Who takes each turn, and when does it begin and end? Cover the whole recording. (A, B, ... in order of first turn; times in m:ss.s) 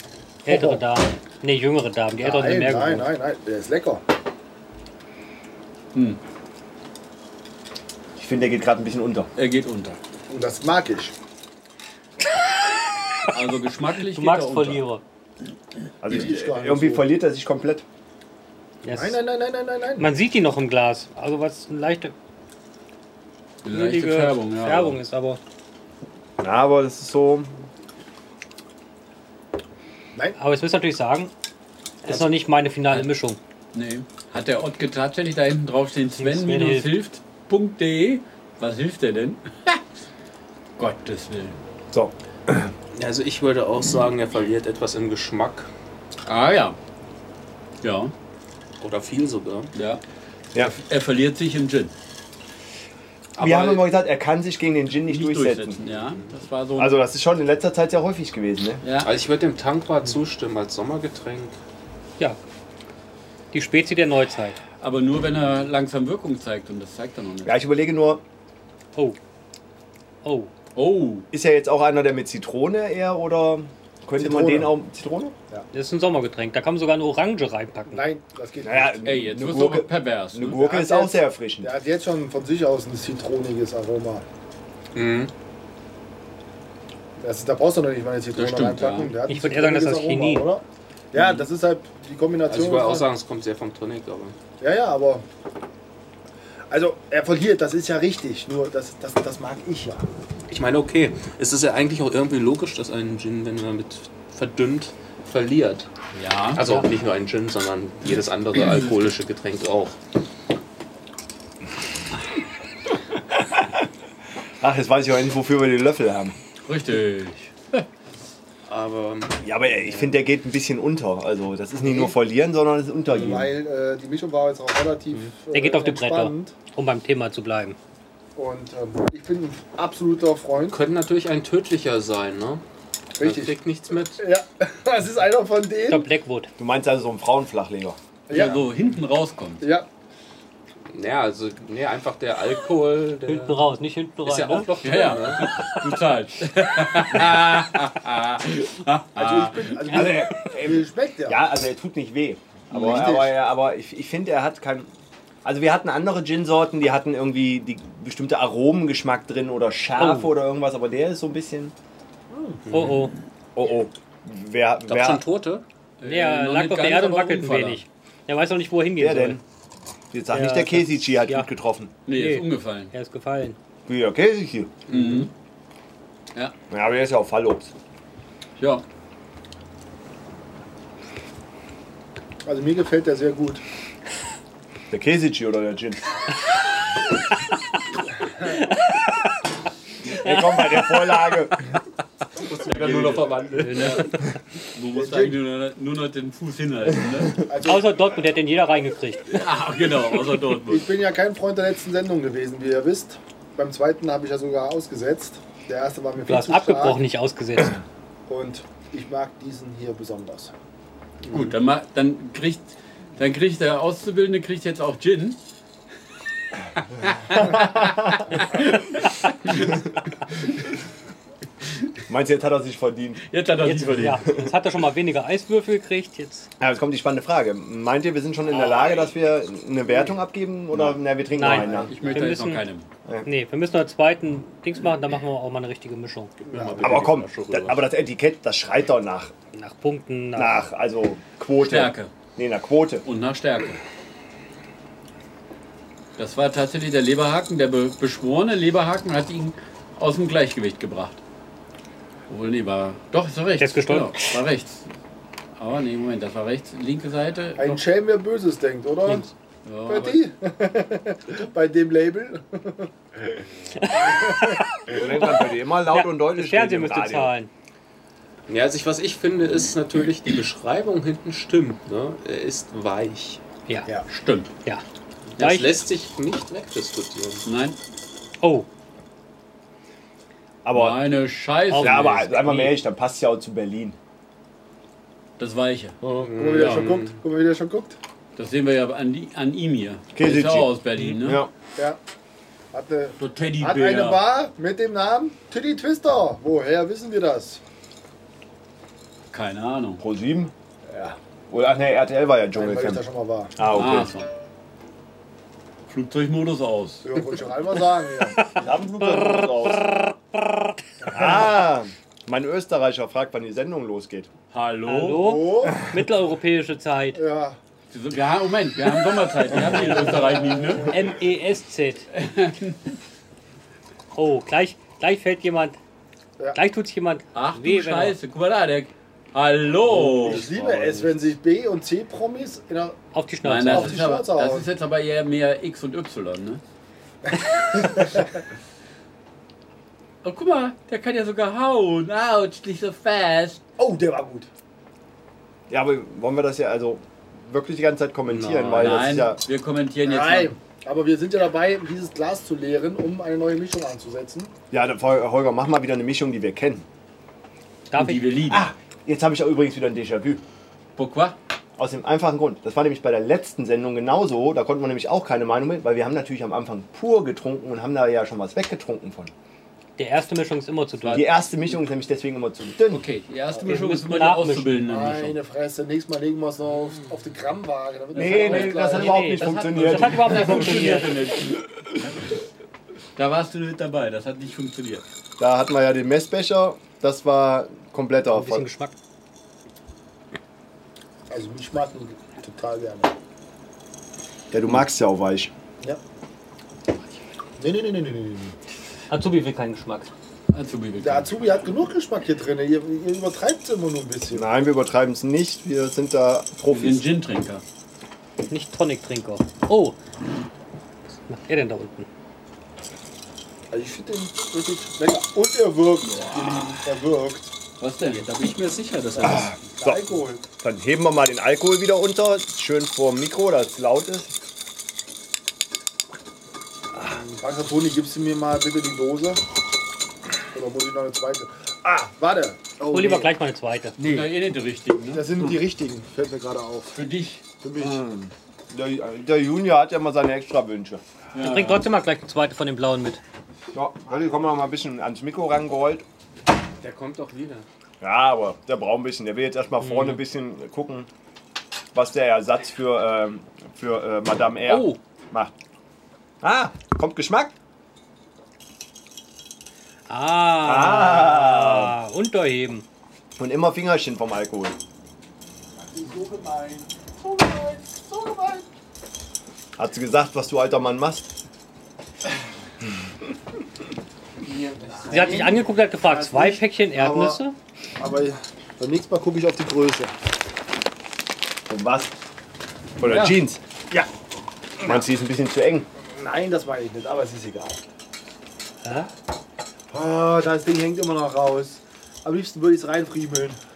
0:00.4-0:03.1 A
0:00.5-0:00.8 B
0:02.2-0:04.0 B
0:05.9-0:06.2 C
0:08.2-0:09.3 D
0:09.4-0:10.0 C
0:10.3-0:11.1 B
0:13.3-0:14.8 C
0:14.1-0:15.0 A
0:16.0-0:17.8 D
0:16.1-0:17.0 B
0:18.8-0:19.2 A
0:18.9-0:20.1 B
0:20.0-0:22.1 A
0:23.6-0:25.0 C
0:23.7-0:25.4 A
0:26.4-0:27.5 D
0:30.4-0:31.3 A
0:32.0-0:33.4 A
0:33.7-0:39.8 C
0:36.2-0:36.9 A
0:40.8-0:41.6 C
0:41.9-0:42.7 D
0:42.9-0:45.7 E
0:46.2-0:46.8 C
0:47.8-0:48.1 C
0:48.8-0:49.7 E
0:49.7-0:50.0 C
0:50.6-0:51.9 C
0:53.4-0:55.8 D
0:53.4-0:53.9 E
0:55.1-0:57.0 C
0:55.9-0:56.3 E
0:56.8-0:58.8 D
0:58.8-0:59.1 C
0:59.0-1:01.6 E
1:03.5-1:04.6 A
1:04.8-1:07.6 C
1:07.4-1:08.2 D
1:10.2-1:10.5 A
1:10.7-1:11.3 C
1:11.3-1:15.3 D
1:14.2-1:14.7 B
1:15.7-1:18.0 A
1:17.9-1:19.0 B
1:18.6-1:21.7 D
1:19.0-1:20.6 C
1:20.6-1:24.2 B
1:24.9-1:25.3 E
1:27.2-1:33.1 B
1:28.3-1:29.1 C
1:29.3-1:30.5 A
1:31.1-1:31.5 C
1:32.5-1:34.4 E
1:34.6-1:35.2 B
1:36.7-1:40.1 B
1:40.5-1:45.9 E
1:46.1-1:46.6 C
1:46.5-1:50.0 E
1:54.6-1:56.3 D
1:56.6-1:57.8 C
1:58.7-2:00.1 E
1:59.4-2:03.5 D
2:01.8-2:02.1 B
2:03.1-2:06.5 B
2:05.5-2:07.8 A
2:08.4-2:10.8 B
2:10.7-2:12.6 E
2:13.2-2:14.2 E
2:13.2-2:13.6 B
2:14.2-2:16.1 B
2:15.9-2:16.5 A
2:16.6-2:18.0 D
2:18.3-2:18.7 B
2:18.3-2:19.6 C
2:19.6-2:19.9 B
2:20.9-2:23.7 E
2:23.2-2:24.7 A
2:24.2-2:25.5 E
2:24.8-2:30.2 C
2:29.2-2:31.4 B
2:29.9-2:34.9 D
2:32.7-2:33.3 B
2:35.4-2:41.7 D
2:40.0-2:40.3 A
2:42.3-2:42.6 B
2:42.7-2:43.1 A
2:43.5-2:45.2 D
2:44.9-2:45.6 E
2:46.0-2:47.8 C
2:46.0-2:49.4 A
2:49.0-2:49.4 D
2:50.1-2:51.9 D
2:50.3-2:51.5 A
2:52.0-2:52.9 C
2:52.1-2:53.6 A
2:53.9-2:54.8 D
2:54.9-2:55.3 C
2:54.9-2:55.3 E
2:56.7-2:57.7 D
2:58.6-2:58.8 C
3:02.4-3:03.6 B
3:04.9-3:06.0 D
3:10.1-3:11.8 D
3:10.2-3:10.9 A
3:12.4-3:14.0 E
3:12.6-3:14.2 C
3:13.6-3:14.2 A
3:14.7-3:17.4 C
3:14.9-3:15.4 B
3:17.4-3:18.0 B
3:17.6-3:19.4 A
3:19.3-3:20.9 C
3:20.7-3:27.0 B
3:26.3-3:27.8 A
3:28.3-3:30.5 B
3:31.3-3:35.4 C
3:37.0-3:39.8 C
3:42.1-3:43.2 D
3:43.3-3:44.2 C
3:43.6-3:46.5 A
3:46.6-3:51.9 D
3:48.6-3:48.9 C
3:50.7-3:52.9 C
3:51.4-3:52.6 A
3:53.2-3:56.3 A
3:56.4-3:57.6 E
3:56.5-3:57.0 B
3:56.7-3:57.7 C
3:56.8-3:59.3 D
3:59.5-4:00.6 A
4:00.3-4:03.0 D
4:01.6-4:02.1 C
4:03.0-4:03.8 C
4:06.2-4:11.2 C
4:12.3-4:14.9 C
4:13.6-4:14.4 A
4:15.6-4:17.8 C
4:17.6-4:19.3 B
4:19.6-4:20.2 C
4:19.8-4:23.4 B
4:23.8-4:27.5 A
4:24.0-4:24.6 B
4:24.9-4:27.3 D
4:28.5-4:33.4 E
4:34.1-4:34.5 C
4:35.4-4:37.4 E
4:35.4-4:35.8 A
4:37.4-4:37.8 C
4:38.4-4:38.7 A
4:40.6-4:41.0 D
4:40.7-4:42.7 C
4:41.7-4:42.1 A
4:41.7-4:44.0 D
4:45.4-4:46.0 C
4:46.1-4:48.0 B
4:46.1-4:47.2 E
4:46.6-4:46.8 C
4:48.4-4:51.4 C
4:50.1-4:51.5 D
4:52.7-4:57.6 B
4:53.2-4:54.2 C
4:59.3-5:00.0 C
5:00.0-5:00.5 D
5:00.9-5:01.2 B
5:01.5-5:03.0 D
5:02.5-5:03.5 B
5:03.6-5:04.1 D
5:03.6-5:04.3 C
5:05.9-5:07.1 C
5:07.0-5:08.5 B
5:08.5-5:10.0 D
5:09.1-5:10.1 A
5:11.0-5:11.4 B
5:11.1-5:14.3 D
5:14.5-5:15.4 C
5:14.9-5:17.2 A
5:15.1-5:15.9 B
5:17.1-5:17.6 B
5:17.9-5:21.0 C
5:19.8-5:20.9 B
5:20.9-5:22.1 A
5:22.1-5:22.8 C
5:24.1-5:25.8 A
5:26.5-5:28.2 A
5:27.3-5:30.4 C
5:29.9-5:31.2 E
5:29.9-5:33.0 B
5:33.1-5:34.0 A
5:33.4-5:36.6 C
5:33.6-5:34.7 B
5:40.2-5:43.6 C
5:43.8-5:44.5 B
5:45.7-5:49.4 D
5:48.3-5:48.7 E
5:48.5-5:50.5 C
5:50.0-5:54.5 B
5:54.7-5:56.8 D
5:57.9-5:58.2 A
5:57.9-5:58.7 C
5:58.5-6:00.4 D
6:01.0-6:01.4 C
6:01.8-6:09.3 D
6:10.0-6:11.3 A
6:11.0-6:11.3 C
6:11.1-6:13.0 D
6:12.9-6:15.4 C
6:13.5-6:13.8 B
6:13.6-6:14.8 A
6:14.8-6:19.2 B
6:18.1-6:21.6 C
6:18.1-6:20.7 D
6:18.8-6:21.1 A
6:23.2-6:25.0 C
6:25.4-6:28.7 D
6:28.3-6:28.9 A
6:31.3-6:33.1 B
6:34.5-6:35.5 D
6:37.6-6:38.5 B
6:39.1-6:40.1 A
6:40.5-6:41.3 C
6:41.0-6:44.5 B
6:44.3-6:47.0 D
6:46.7-6:47.6 C
6:48.5-6:50.0 A
6:51.3-6:52.1 A
6:53.7-6:57.5 B
6:56.0-6:56.8 C
6:57.8-6:58.3 C
6:58.0-6:59.7 E
6:59.2-7:00.4 B
7:00.6-7:04.4 D
7:07.0-7:09.4 B
7:10.5-7:13.3 B
7:12.9-7:14.0 A
7:14.0-7:15.6 C
7:14.0-7:14.2 B
7:15.1-7:17.0 B
7:16.9-7:17.4 C
7:17.6-7:18.0 B
7:17.8-7:21.0 D
7:21.3-7:21.8 C
7:21.3-7:23.2 A
7:23.7-7:26.0 D
7:26.8-7:27.6 E
7:28.0-7:31.1 D
7:29.8-7:30.2 A
7:31.9-7:35.5 D
7:36.4-7:37.5 D
7:40.1-7:42.8 A
7:40.6-7:42.0 D
7:43.4-7:44.8 D
7:45.8-7:48.6 B
7:49.8-7:51.3 D
7:54.5-7:57.4 B
7:54.5-7:55.5 E
7:55.1-7:57.6 A
7:58.0-8:00.1 B
8:01.7-8:02.1 D
8:03.0-8:04.0 D
8:04.8-8:05.9 D
8:06.0-8:07.8 B
8:08.8-8:09.1 A
8:09.9-8:13.6 B